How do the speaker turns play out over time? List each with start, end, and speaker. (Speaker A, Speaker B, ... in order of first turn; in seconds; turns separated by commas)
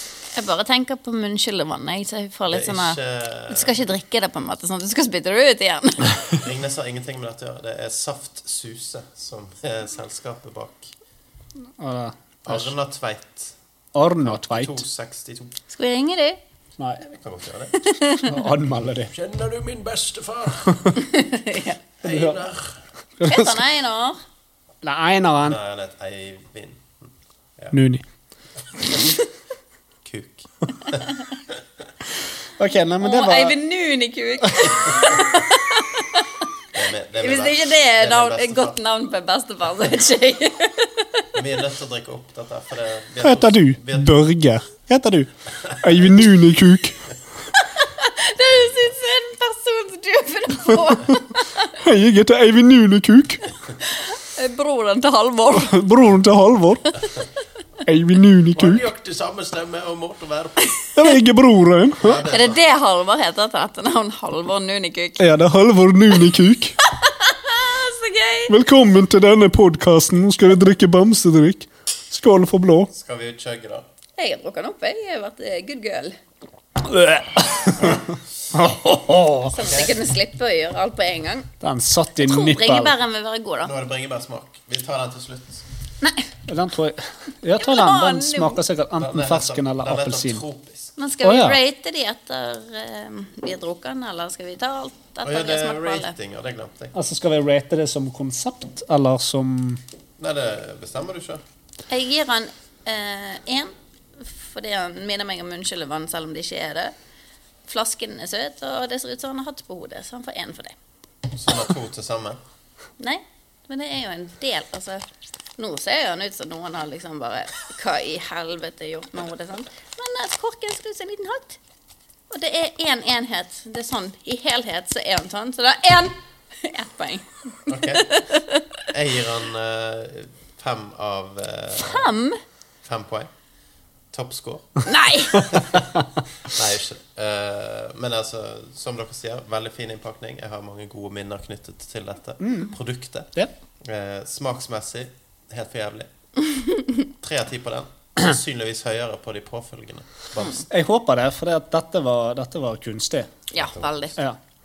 Speaker A: 0.3-6.2, Speaker B: 2.5-3.8, Speaker B: 6.3-10.9, Speaker C: 11.8-12.7, Speaker B: 12.4-13.5, Speaker C: 13.9-14.8, Speaker B: 14.2-15.5, Speaker A: 15.7-16.4, Speaker B: 17.0-17.9, Speaker A: 17.8-18.4, Speaker C: 18.2-19.1, Speaker B: 19.1-20.9, Speaker A: 20.9-21.8, Speaker B: 22.0-22.8, Speaker C: 22.0-22.4, Speaker C: 23.2-23.6, Speaker A: 23.2-24.2, Speaker C: 24.8-25.6, Speaker B: 25.4-27.8, Speaker C: 27.7-28.0, Speaker B: 28.9-29.1, Speaker B: 30.0-31.6, Speaker C: 32.6-33.6, Speaker A: 33.0-36.4, Speaker B: 34.7-35.1, Speaker B: 36.7-38.8, Speaker A: 37.1-41.2, Speaker B: 41.3-44.1, Speaker C: 43.2-47.1, Speaker A: 47.5-51.7, Speaker C: 51.8-53.4, Speaker A: 53.8-55.8, Speaker C: 55.5-56.9, Speaker C: 57.8-58.8, Speaker B: 58.5-60.7, Speaker C: 60.9-62.2, Speaker B: 62.0-62.6, Speaker A: 62.3-65.3, Speaker C: 65.2-66.8, Speaker A: 66.8-68.5, Speaker C: 68.5-72.9, Speaker B: 72.9-73.8, Speaker A: 74.2-76.2, Speaker C: 76.8-79.5, Speaker A: 79.5-81.5, Speaker B: 79.6-79.9, Speaker C: 81.6-82.9, Speaker A: 82.2-83.7, Speaker B: 83.6-85.6, Speaker A: 86.0-86.3, Speaker C: 86.5-90.4, Speaker A: 87.6-88.6, Speaker B: 89.0-91.0, Speaker A: 91.0-96.1, Speaker C: 91.2-91.6, Speaker B: 95.2-97.0, Speaker C: 96.9-99.8, Speaker B: 100.2-101.4, Speaker A: 101.9-106.9, Speaker A: 107.7-110.7, Speaker B: 111.3-112.4, Speaker A: 113.0-115.0, Speaker A: 115.6-121.6, Speaker A: 122.3-128.8, Speaker B: 127.7-128.2, Speaker B: 128.9-132.1, Speaker A: 131.8-132.4, Speaker B: 132.8-133.3, Speaker B: 134.1-143.3, Speaker A: 134.8-135.6, Speaker C: 142.4-142.7, Speaker B: 143.8-146.1, Speaker A: 146.5-147.0, Speaker B: 147.2-150.7, Speaker C: 150.6-153.3, Speaker A: 153.5-154.2, Speaker B: 153.6-154.1